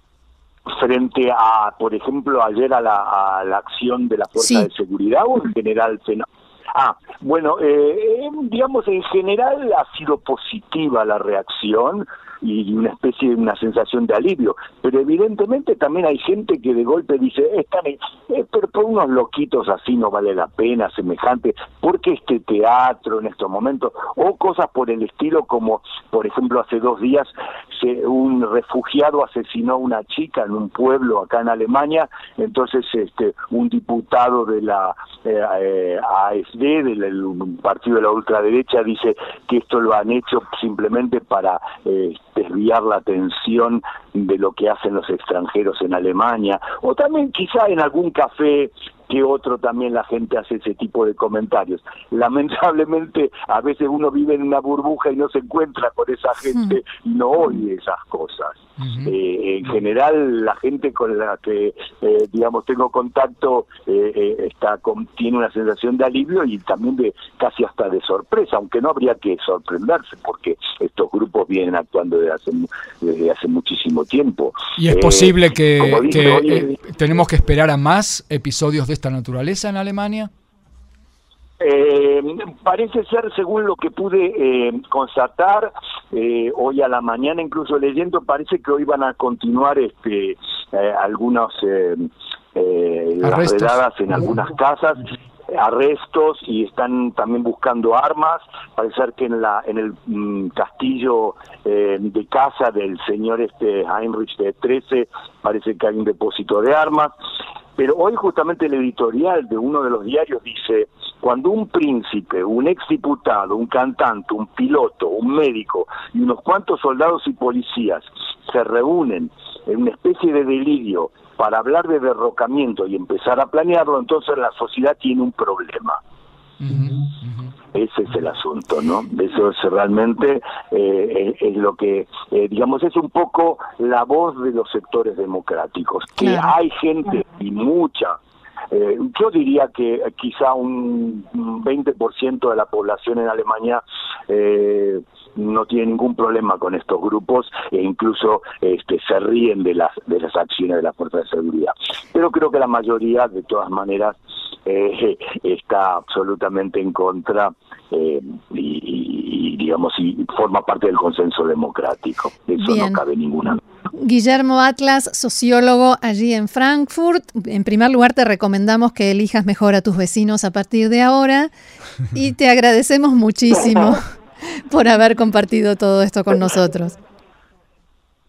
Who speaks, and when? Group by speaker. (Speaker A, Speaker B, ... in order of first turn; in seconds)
Speaker A: 0.7-76.8, 81.6-107.1, 107.8-126.0, 127.7-138.2, 138.7-163.6, 173.5-174.0
Speaker B: 4.4-4.7, 136.2-136.5, 162.6-163.0, 163.9-171.5, 172.1-176.9
Speaker C: 74.8-80.3, 93.2-94.3, 126.6-127.5